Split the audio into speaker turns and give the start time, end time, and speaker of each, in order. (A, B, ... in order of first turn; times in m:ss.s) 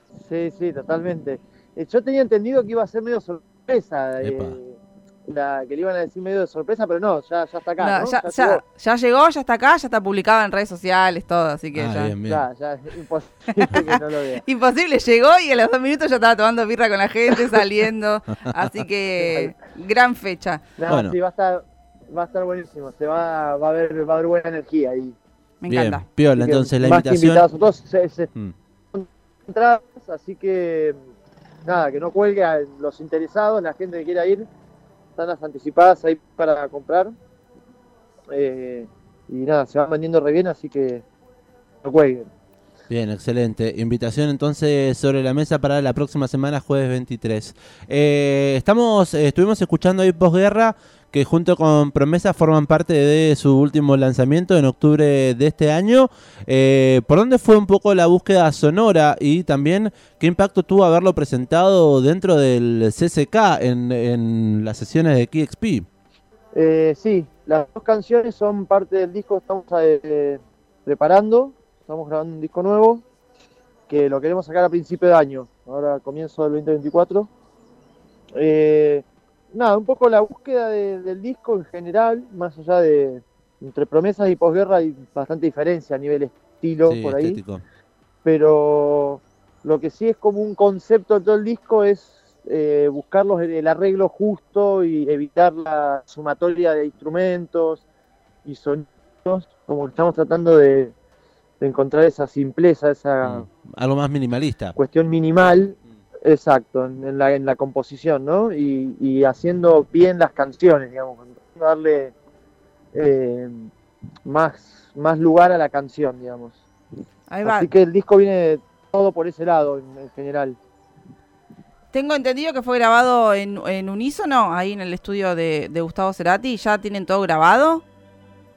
0:00.2-0:08.6 A
0:04.2-0:04.6 B
0:07.8-0:12.1 C
0:11.8-0:12.4 B
0:12.3-0:14.4 A
0:14.4-0:20.6 C
0:19.2-0:19.5 A
0:20.8-0:25.2 A
0:20.9-0:21.2 B
0:25.6-0:26.0 C
0:25.7-0:27.5 B
0:26.4-0:28.3 A
0:28.9-0:31.0 A
0:31.6-0:34.5 A
0:35.2-0:37.1 A
0:38.3-0:41.0 A
0:41.8-0:42.3 A
0:42.9-1:05.9 B
1:06.5-1:13.0 A
1:13.9-1:17.3 A
1:18.4-1:27.4 A
1:26.9-1:27.6 B
1:28.2-1:37.8 A
1:38.4-1:40.9 A
1:41.6-1:43.5 A
1:43.2-1:44.8 B
1:44.8-1:52.1 A
1:52.9-1:53.7 A
1:54.2-1:56.6 A
1:57.3-1:57.7 C
1:57.4-2:00.6 A
2:01.9-2:07.8 C